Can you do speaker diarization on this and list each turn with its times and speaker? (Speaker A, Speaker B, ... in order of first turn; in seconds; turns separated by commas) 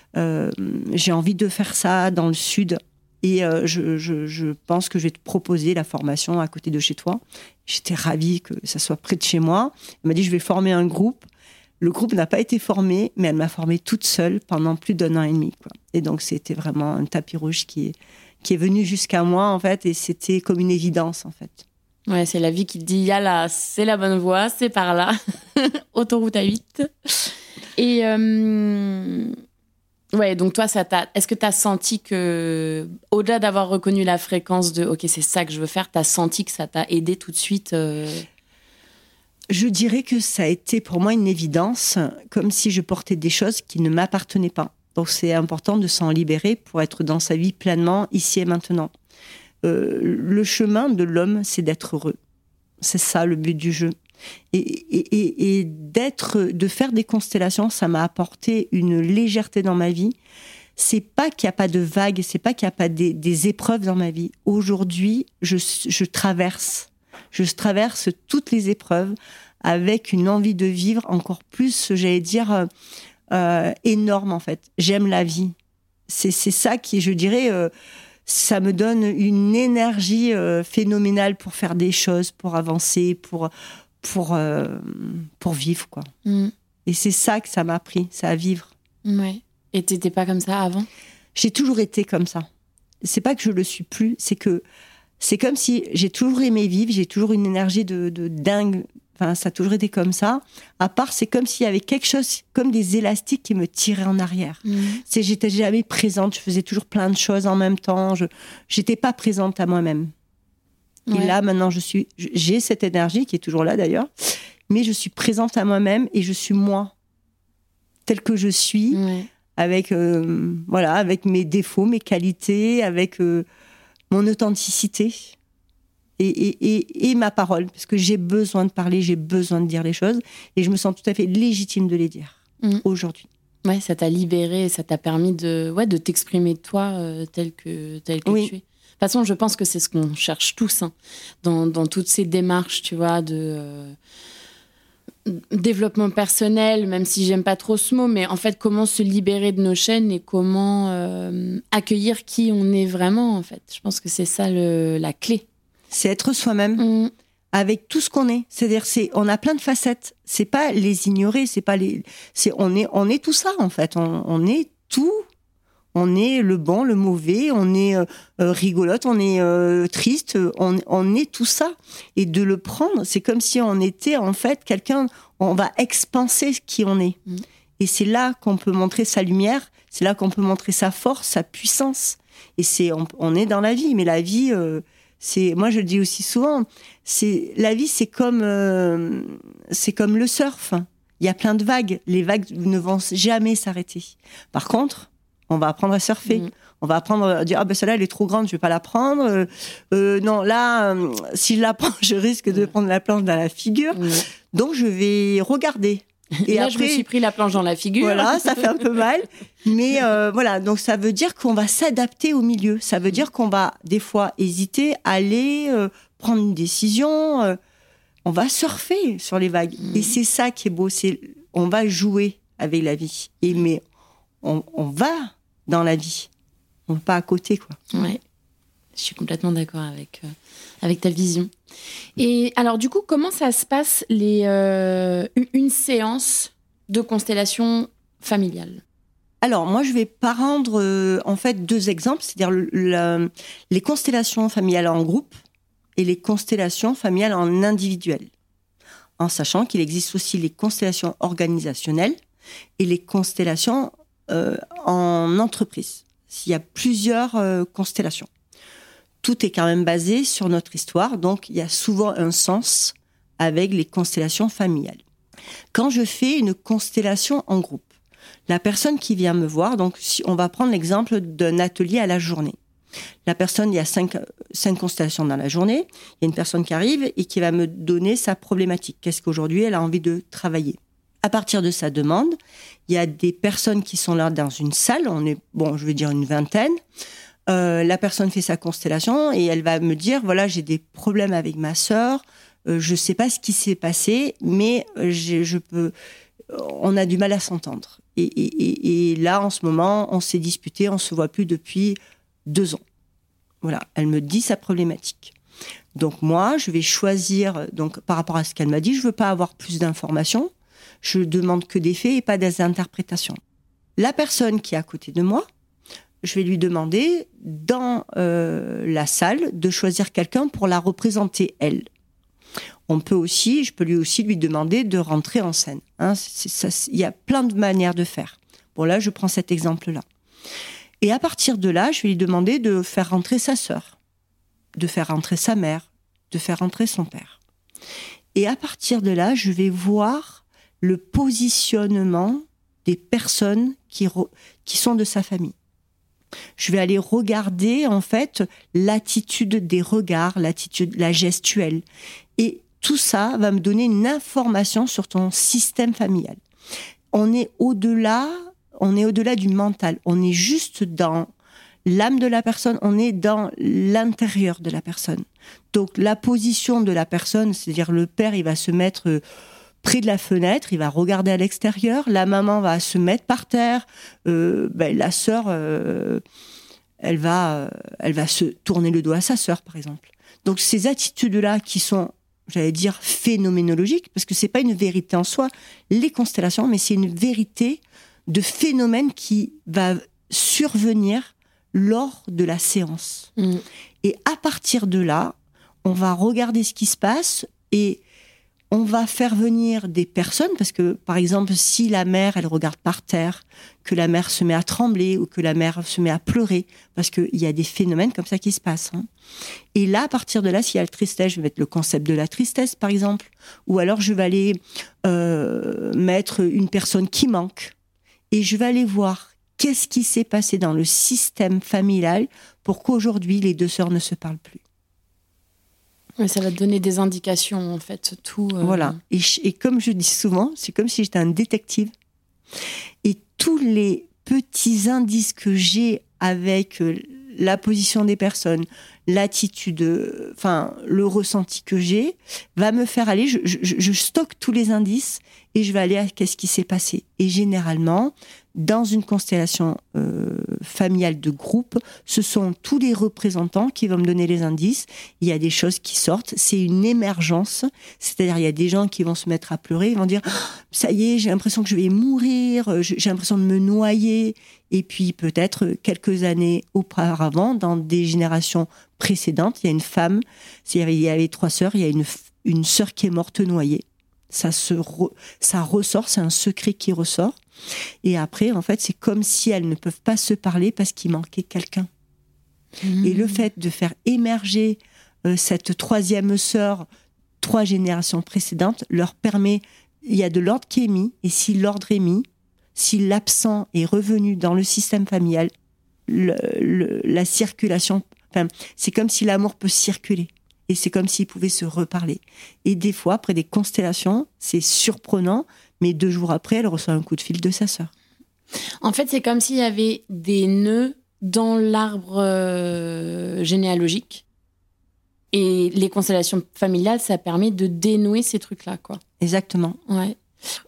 Speaker A: 0.1-11.3, Speaker A: 11.8-21.6, Speaker B: 22.1-29.4, Speaker B: 30.1-38.3, Speaker A: 39.5-48.9, Speaker A: 49.6-52.2, Speaker A: 52.8-54.0, Speaker A: 54.5-60.1, Speaker A: 60.8-72.7, Speaker A: 73.3-75.5, Speaker A: 76.1-77.7, Speaker A: 78.3-86.1, Speaker B: 86.2-86.5, Speaker A: 86.9-88.7, Speaker B: 89.0-90.9, Speaker A: 91.3-92.5, Speaker A: 93.0-94.6, Speaker A: 95.2-110.1, Speaker B: 104.7-105.0, Speaker B: 111.1-111.4, Speaker A: 111.1-116.9, Speaker A: 118.1-119.0, Speaker B: 118.9-119.3, Speaker A: 119.5-123.5, Speaker A: 124.1-125.3, Speaker A: 126.2-133.3, Speaker B: 133.6-144.0, Speaker A: 138.3-138.5, Speaker B: 145.3-155.5, Speaker A: 155.9-156.8, Speaker B: 156.8-157.1, Speaker A: 157.5-165.2, Speaker A: 165.9-177.2, Speaker A: 177.8-207.1, Speaker B: 203.9-204.3, Speaker B: 206.4-208.8, Speaker A: 208.0-217.6, Speaker A: 218.3-223.8, Speaker B: 219.8-220.2, Speaker A: 224.4-226.3, Speaker A: 226.9-227.8, Speaker B: 227.9-228.2, Speaker B: 229.0-231.5, Speaker B: 232.2-238.8, Speaker A: 239.4-245.3, Speaker A: 246.0-248.3, Speaker A: 249.2-252.2, Speaker A: 252.8-258.3, Speaker A: 259.2-265.0, Speaker A: 265.7-267.9, Speaker A: 268.5-272.6, Speaker A: 273.3-282.4, Speaker A: 282.9-286.8, Speaker A: 287.5-295.9, Speaker A: 296.5-302.8, Speaker A: 303.6-305.4, Speaker A: 305.9-313.4, Speaker A: 314.0-315.5, Speaker A: 316.2-321.9, Speaker A: 322.9-330.1, Speaker A: 331.0-333.9, Speaker A: 334.8-337.4, Speaker A: 338.4-345.6, Speaker A: 346.6-351.8, Speaker A: 352.4-356.4, Speaker A: 357.1-361.3, Speaker A: 361.9-369.2, Speaker A: 369.8-376.2, Speaker A: 377.0-393.3, Speaker B: 393.4-393.6, Speaker A: 394.0-398.0, Speaker A: 398.7-409.1, Speaker A: 409.7-417.8, Speaker A: 418.3-424.6, Speaker B: 426.2-429.0, Speaker A: 428.6-431.9, Speaker A: 433.0-477.4, Speaker A: 478.0-481.9, Speaker B: 482.8-483.4, Speaker A: 483.0-486.9, Speaker A: 487.4-492.2, Speaker A: 492.8-495.5, Speaker A: 496.1-507.9, Speaker B: 508.8-514.2, Speaker B: 515.3-519.0, Speaker A: 519.2-519.8, Speaker B: 519.9-520.2